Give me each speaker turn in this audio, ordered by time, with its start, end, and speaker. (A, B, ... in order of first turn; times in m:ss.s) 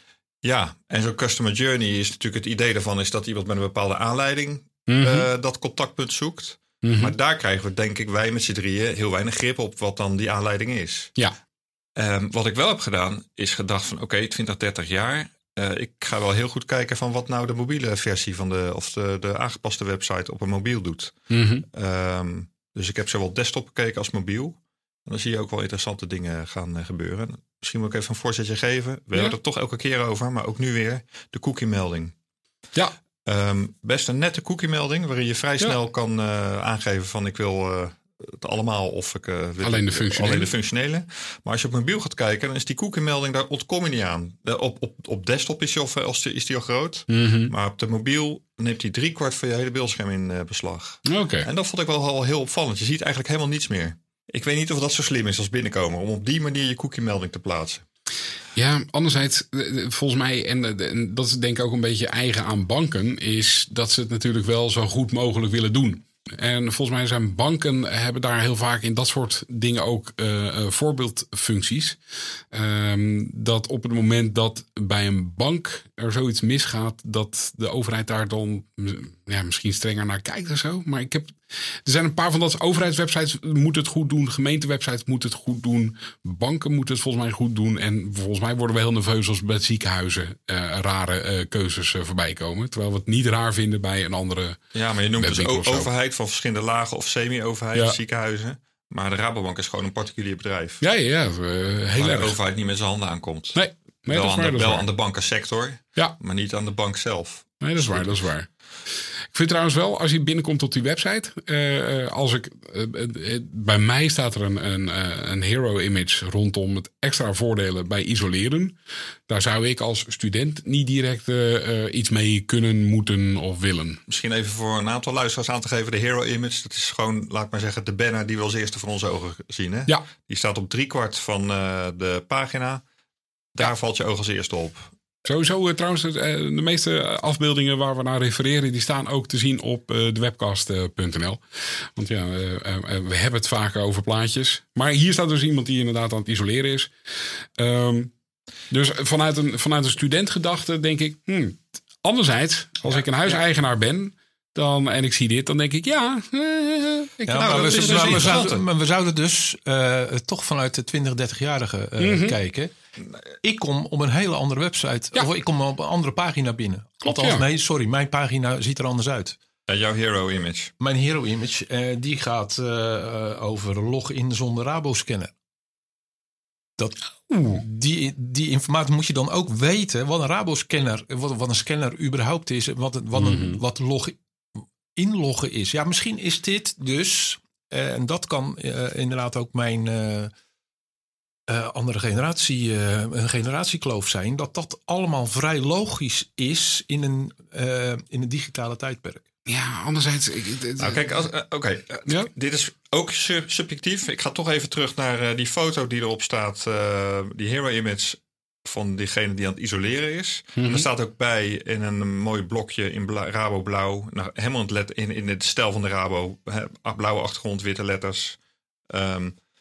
0:00.4-0:11.1 A
0:04.9-0:05.3 B
0:06.8-0:07.1 B
0:12.0-0:21.2 A
0:21.3-0:21.6 B
0:21.7-0:32.1 A
0:33.2-0:57.8 A
0:39.6-0:40.5 B
0:47.1-0:47.5 B
0:51.0-0:51.5 B
0:58.6-1:34.6 B
1:34.7-1:40.8 A
1:35.2-1:35.9 B
1:40.8-1:42.4 B
1:41.9-1:48.1 A
1:43.5-1:44.8 B
1:47.6-1:48.5 B
1:49.3-1:58.8 B
1:59.3-2:04.0 B
2:04.1-2:12.8 A
2:13.5-2:14.9 A
2:15.2-2:26.9 B
2:27.6-2:28.1 B
2:28.7-2:38.4 B
2:37.2-2:42.7 C
2:37.4-2:38.6 A
2:42.0-2:42.4 B
2:43.4-2:49.4 C
2:47.0-2:47.4 B
2:49.7-2:50.7 A
2:50.8-2:55.3 C
2:56.8-3:10.3 C
2:57.3-2:57.6 B
3:03.2-3:03.6 B
3:11.5-3:19.2 C
3:19.5-3:21.0 B
3:20.8-3:38.4 A
3:30.6-3:30.8 B
3:38.9-3:39.4 A